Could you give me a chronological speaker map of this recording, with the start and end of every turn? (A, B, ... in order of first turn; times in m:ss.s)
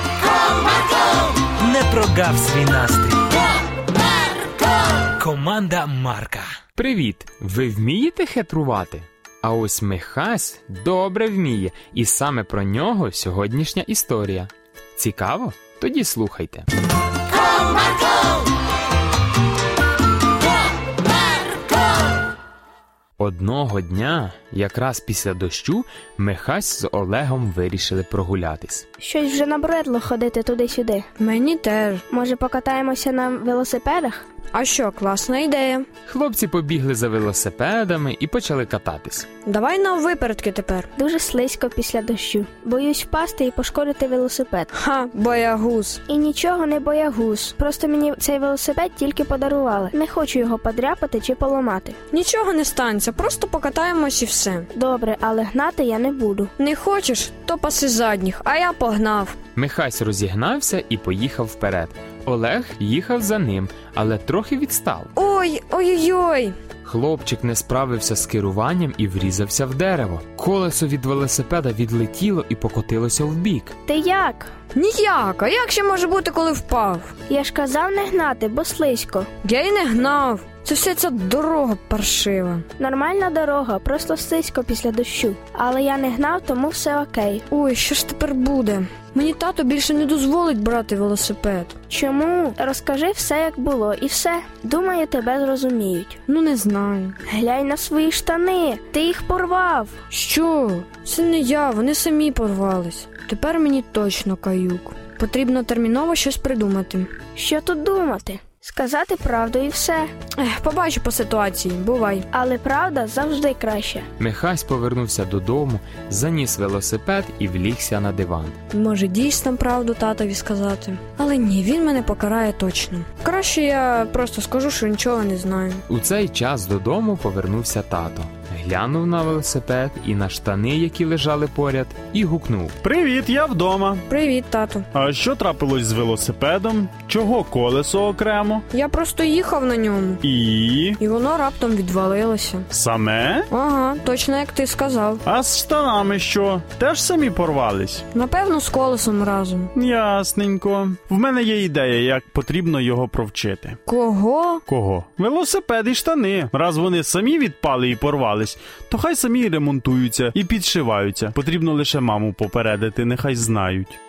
0:00.9-0:03.5 A
0:01.7-0:02.2 B
0:05.1-0:06.6 A
0:06.8-0:16.7 B
0:23.2-0:28.8 B
0:29.0-0:31.1 C
0:31.2-0:32.0 D
0:32.1-0:34.2 C
0:34.5-0:35.9 D
0:36.1-0:39.3 B
0:39.4-0:40.9 D
0:41.0-0:44.7 C
0:44.7-0:46.0 D
0:46.1-0:52.0 C
0:52.1-0:54.7 D
0:54.7-0:56.5 C
0:56.6-0:59.4 D
0:59.6-1:05.1 B
1:05.2-1:06.5 D
1:06.8-1:13.8 B
1:13.9-1:14.5 C
1:14.8-1:17.1 D
1:17.3-1:19.3 C
1:19.4-1:22.6 D
1:22.8-1:27.4 C
1:27.5-1:31.8 D
1:31.9-1:36.2 C
1:36.3-1:37.2 D
1:37.3-1:39.9 C
1:40.1-1:47.1 D
1:47.4-1:50.1 C
1:50.4-1:52.3 D
1:52.3-1:54.1 C
1:54.2-1:58.6 B
1:58.7-2:05.8 D
2:05.9-2:12.8 B
2:12.8-2:14.0 E
2:14.1-2:14.9 D
2:14.9-2:18.6 E
2:18.7-2:20.2 D
2:20.2-2:21.0 E
2:21.0-2:22.7 D
2:22.7-2:23.5 E
2:23.5-2:25.2 D
2:25.2-2:28.0 E
2:28.1-2:29.7 D
2:29.7-2:33.8 E
2:33.9-2:34.6 D
2:34.7-2:44.0 E